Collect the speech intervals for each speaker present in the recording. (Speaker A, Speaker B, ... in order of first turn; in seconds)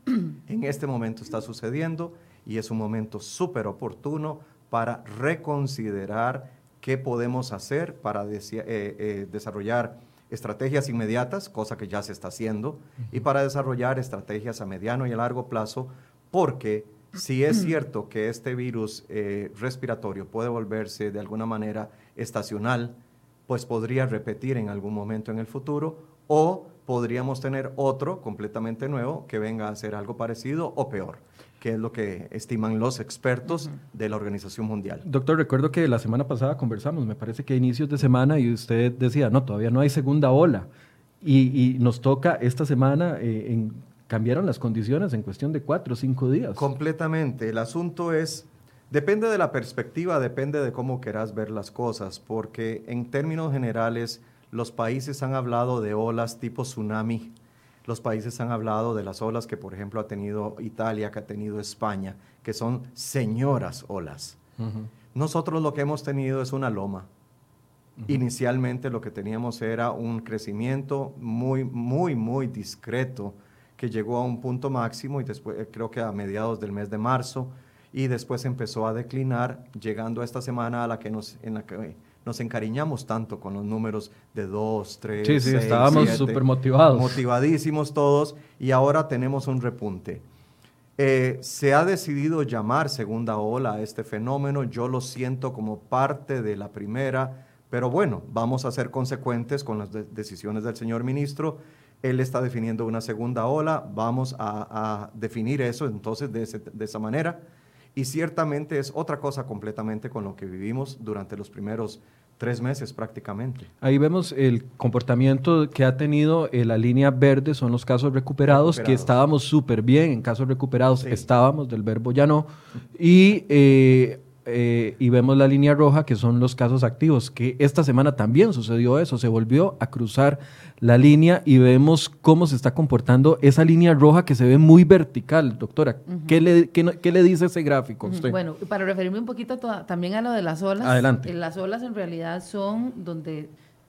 Speaker A: 0.4-23.0, 23.5-35.0, 46.5-64.4, 65.1-67.1, 68.0-90.2, 91.0-107.4, 107.9-113.7, 118.5-119.2
Speaker B: 35.0-40.7, 41.2-46.7, 64.6-64.9, 85.2-87.2, 113.8-138.3, 140.8-141.3
Speaker C: 136.1-136.4, 138.0-143.5